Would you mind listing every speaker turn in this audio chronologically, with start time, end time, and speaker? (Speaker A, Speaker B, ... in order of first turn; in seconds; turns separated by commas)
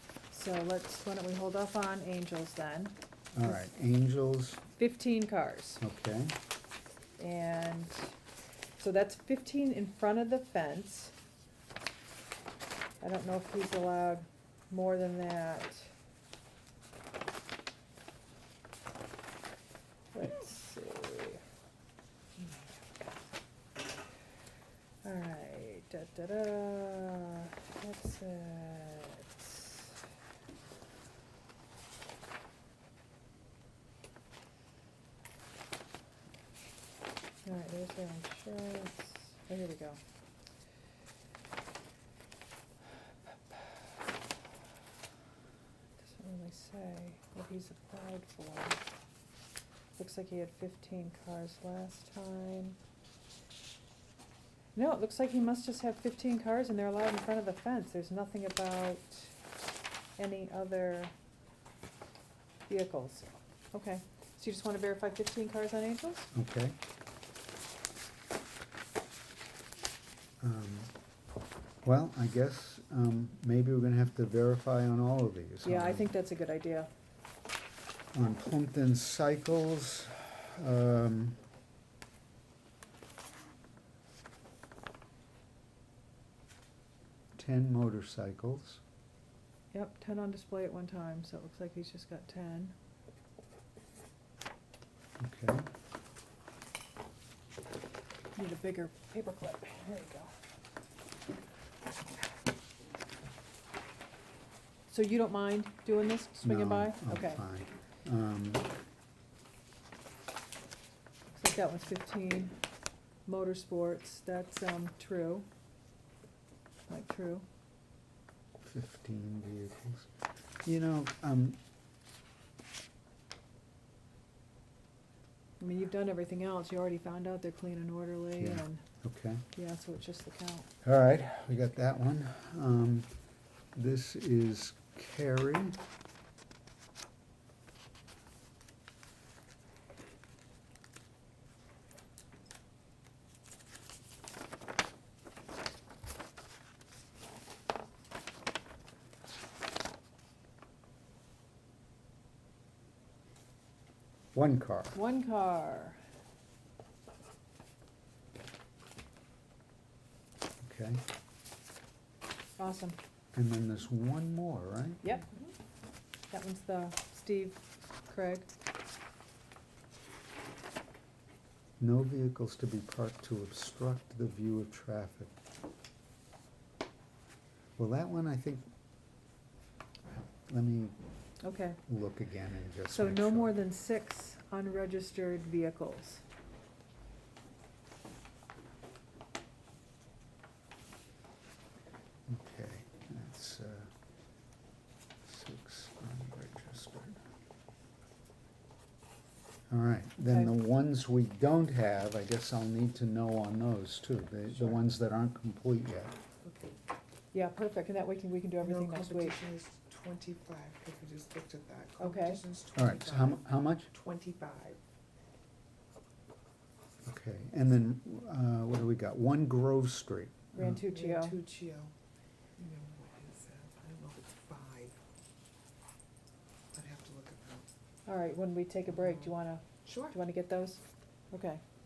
Speaker A: 0.3-3.5, Speaker B: 3.3-4.6, Speaker A: 4.8-5.8, Speaker B: 5.8-6.3, Speaker A: 7.2-8.1, Speaker A: 8.8-11.1, Speaker A: 13.0-15.9, Speaker A: 20.1-21.4, Speaker A: 22.4-23.2, Speaker A: 25.0-29.9, Speaker A: 37.4-40.0, Speaker A: 43.3-43.7, Speaker A: 46.0-48.8, Speaker A: 50.0-52.8, Speaker A: 54.7-59.4, Speaker A: 60.2-61.1, Speaker A: 62.7-66.3, Speaker B: 66.3-66.8, Speaker B: 70.4-70.9, Speaker B: 71.8-76.1, Speaker A: 75.6-76.9, Speaker B: 78.1-81.4, Speaker B: 87.3-88.8, Speaker A: 89.7-92.7, Speaker B: 95.2-95.7, Speaker A: 98.3-100.3, Speaker A: 104.9-107.4, Speaker B: 106.4-108.7, Speaker A: 111.3-112.5, Speaker A: 113.2-115.5, Speaker A: 116.9-117.5, Speaker B: 118.6-120.1, Speaker B: 120.6-121.6, Speaker A: 125.6-128.8, Speaker B: 128.4-129.4, Speaker A: 129.5-130.7, Speaker B: 130.8-133.1, Speaker B: 133.7-135.8, Speaker B: 154.3-155.0, Speaker A: 154.9-156.0, Speaker B: 160.6-161.0, Speaker A: 162.6-163.0, Speaker B: 163.3-165.0, Speaker A: 165.0-165.3, Speaker A: 166.3-168.5, Speaker B: 171.8-175.3, Speaker B: 177.8-178.7, Speaker B: 180.1-180.9, Speaker A: 181.4-181.8, Speaker B: 181.9-183.6, Speaker A: 182.9-186.2, Speaker B: 192.3-193.9, Speaker B: 195.2-197.2, Speaker B: 199.7-206.1, Speaker C: 206.4-206.8, Speaker A: 207.3-209.4, Speaker C: 208.6-214.8, Speaker A: 212.0-212.4, Speaker B: 212.8-213.9, Speaker B: 217.0-220.8, Speaker A: 220.5-221.4, Speaker C: 220.8-221.9, Speaker C: 222.6-225.0, Speaker C: 226.7-227.7, Speaker A: 228.1-231.6, Speaker C: 229.1-229.3, Speaker C: 229.8-230.2